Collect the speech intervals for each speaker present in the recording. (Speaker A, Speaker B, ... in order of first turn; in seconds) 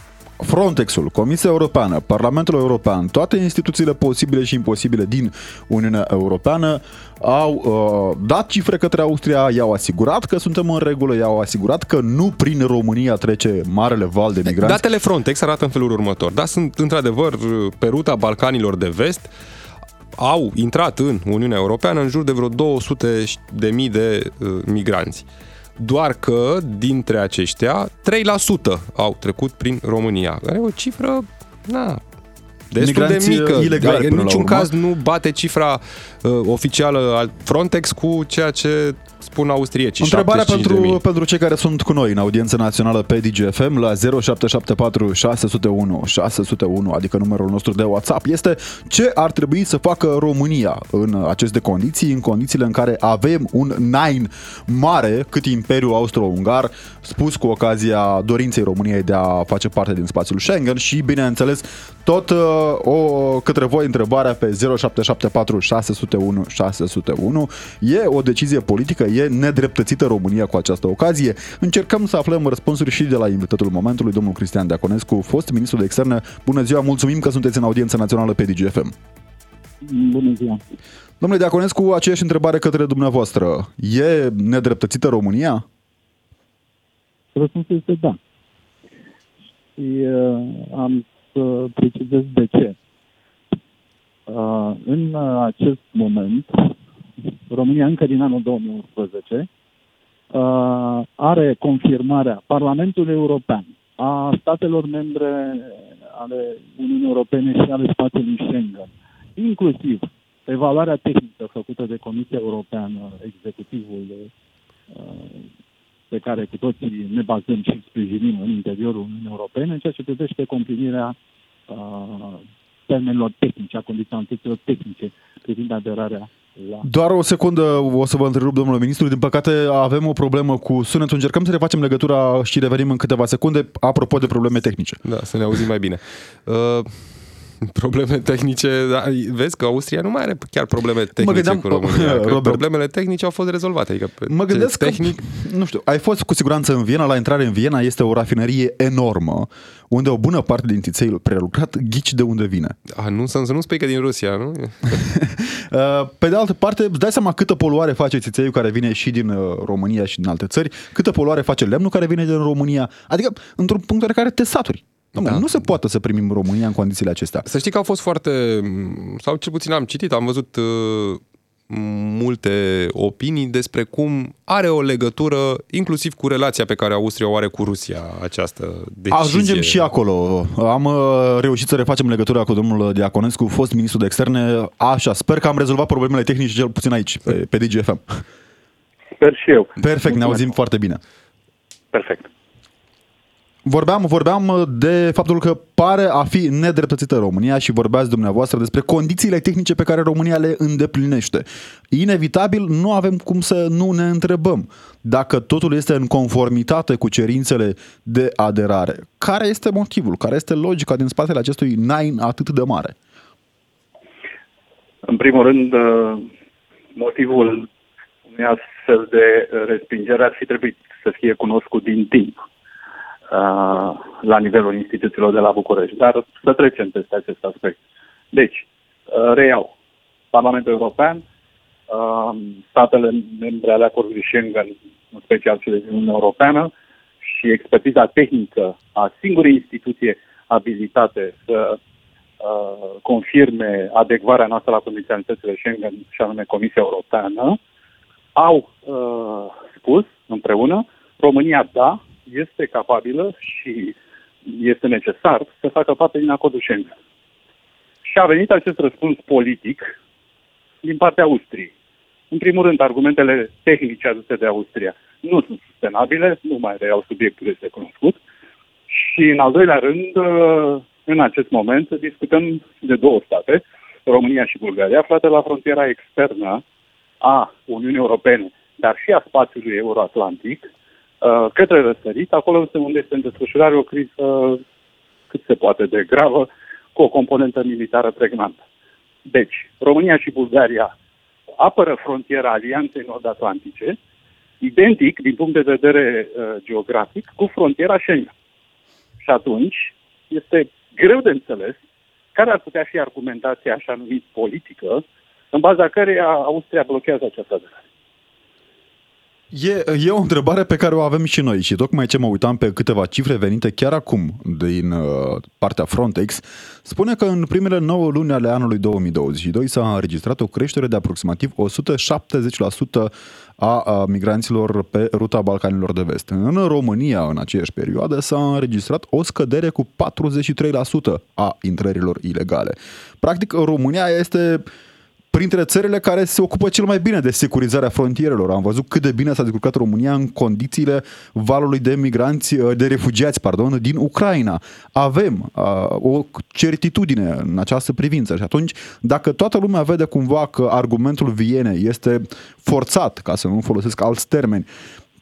Speaker A: 0.4-14.8, 32.8-34.7, 40.0-78.9, 81.2-85.6, 126.8-135.0, 141.2-142.6, 144.3-152.8, 154.9-167.4, 179.1-188.2, 189.8-191.0, 193.6-212.9, 309.5-334.7, 335.3-354.7
Speaker B: 14.4-19.3, 20.2-25.2, 25.8-32.0, 32.7-41.0, 135.0-145.2, 152.9-155.0, 165.2-165.5, 167.4-179.8
Speaker C: 79.8-80.6, 87.3-88.2, 89.8-92.8, 94.3-96.7, 97.5-99.5, 100.3-114.3, 114.9-115.5, 116.1-121.2, 121.7-126.8
Speaker D: 189.2-190.5, 191.9-192.3, 215.1-216.3, 216.9-217.7, 218.3-222.4, 223.3-227.8, 228.3-229.7, 230.3-231.2, 231.9-236.7, 237.2-241.8, 242.4-247.6, 248.3-256.9, 258.1-259.9, 260.8-261.7, 262.3-268.2, 268.9-276.6, 277.2-280.7, 281.2-284.6, 285.3-288.6, 289.3-290.9, 291.6-294.0, 294.6-298.3, 299.2-301.8, 302.3-307.8